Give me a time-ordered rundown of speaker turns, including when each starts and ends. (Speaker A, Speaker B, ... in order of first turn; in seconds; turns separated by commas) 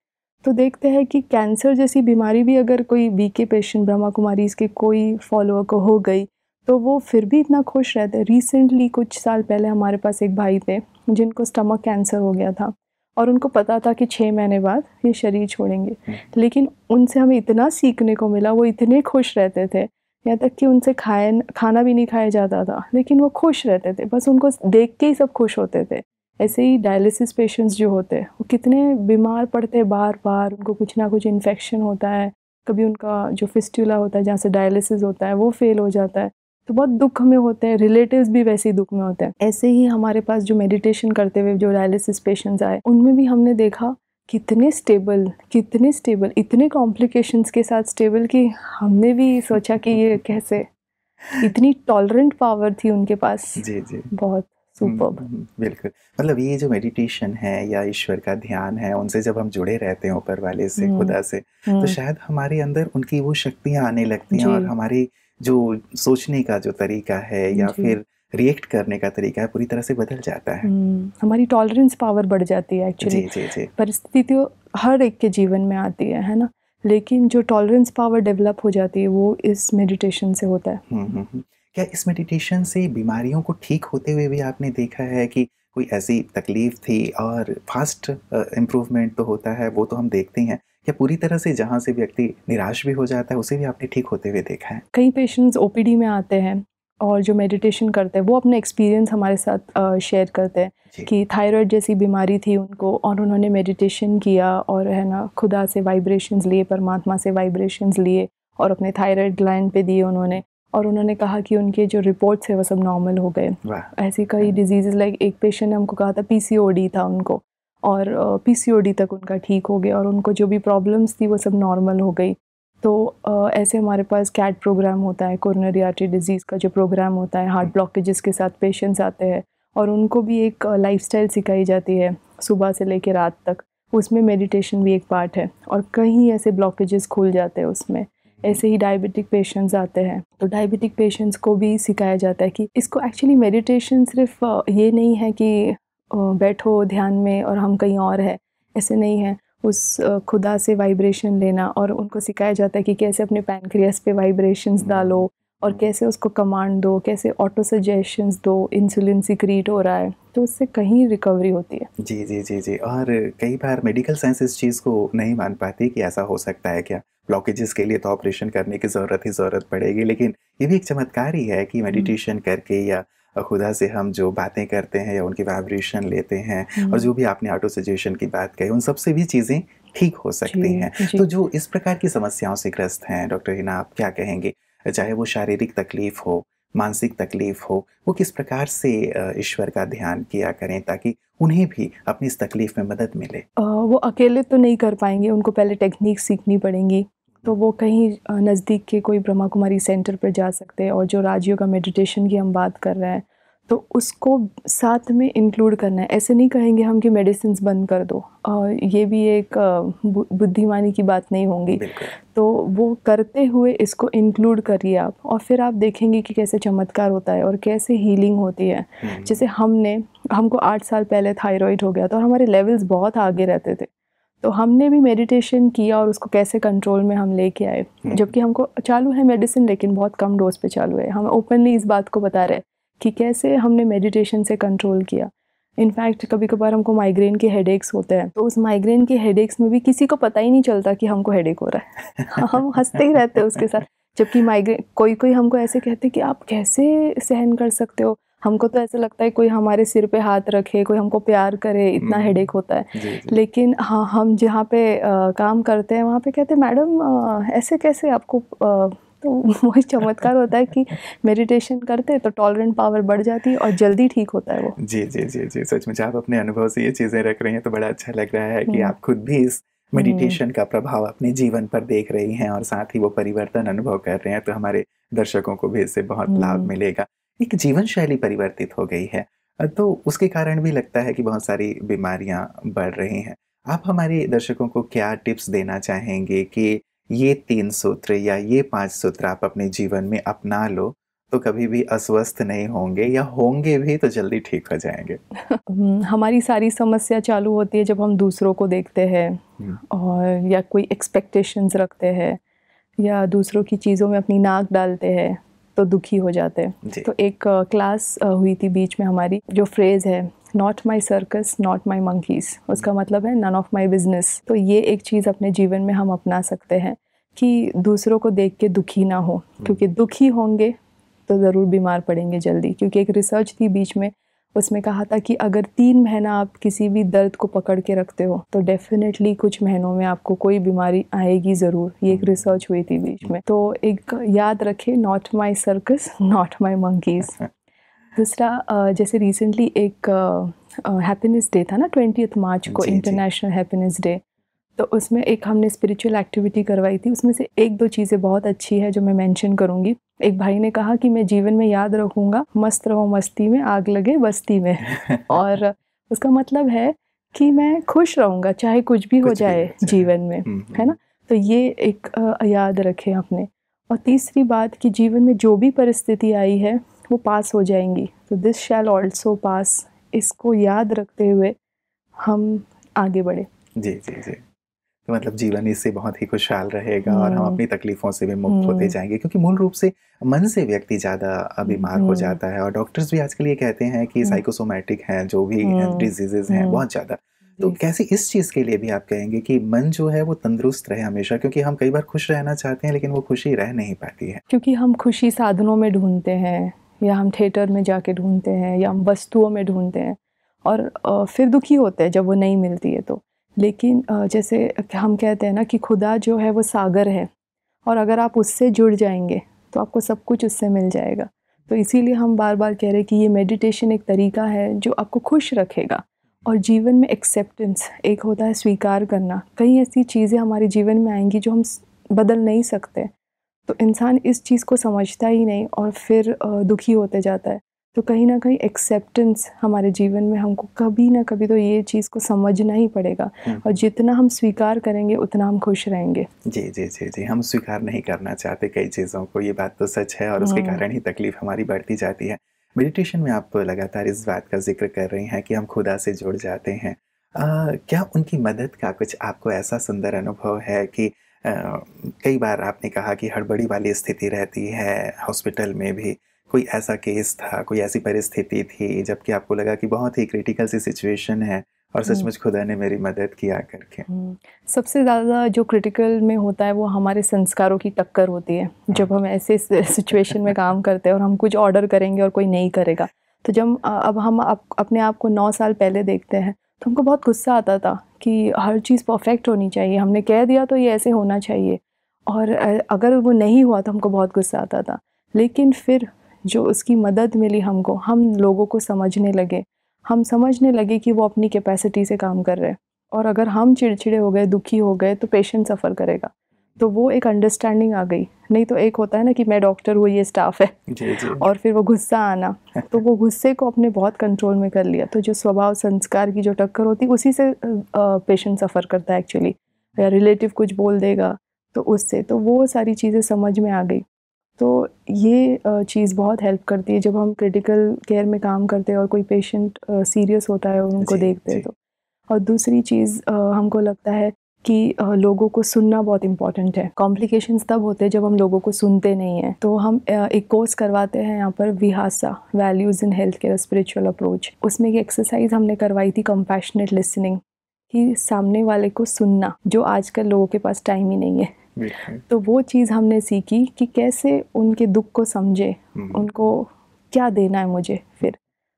Speaker A: 0.4-50.7, Speaker A: 51.4-55.2, Speaker B: 53.6-54.1, Speaker B: 54.8-70.7, Speaker A: 60.8-61.1, Speaker A: 61.6-62.0, Speaker A: 64.3-64.7, Speaker A: 67.5-68.0, Speaker A: 70.6-80.8, Speaker B: 73.0-73.7, Speaker B: 80.9-94.8, Speaker A: 94.9-161.9, Speaker B: 113.6-114.5, Speaker B: 154.8-155.8, Speaker B: 162.0-193.4, Speaker A: 176.8-177.1, Speaker A: 180.4-181.2, Speaker A: 193.6-223.9, Speaker B: 211.7-212.1, Speaker B: 219.0-219.4, Speaker A: 224.4-264.8, Speaker B: 228.0-228.3, Speaker B: 252.0-252.4, Speaker B: 252.9-253.4, Speaker B: 264.8-295.2, Speaker A: 268.7-268.9, Speaker A: 269.9-270.4, Speaker A: 276.3-276.7, Speaker A: 295.5-302.4, Speaker A: 303.0-320.7, Speaker A: 321.3-337.4, Speaker B: 332.1-332.4, Speaker A: 338.1-344.2, Speaker B: 342.7-343.2, Speaker A: 344.8-371.5, Speaker B: 354.9-355.3, Speaker B: 359.2-360.9, Speaker A: 372.2-373.5, Speaker B: 373.8-374.4, Speaker B: 375.1-394.4, Speaker A: 377.1-377.6, Speaker A: 378.5-378.9, Speaker A: 381.7-382.4, Speaker A: 385.6-386.8, Speaker A: 394.5-407.3, Speaker A: 407.9-423.1, Speaker A: 423.7-436.3, Speaker B: 433.4-433.8, Speaker B: 436.4-464.1, Speaker A: 440.4-440.8, Speaker A: 464.1-514.0, Speaker B: 500.9-501.4, Speaker A: 514.6-521.7, Speaker B: 521.0-521.6, Speaker A: 522.3-541.6, Speaker B: 541.8-542.2, Speaker A: 542.3-548.4, Speaker B: 546.0-546.3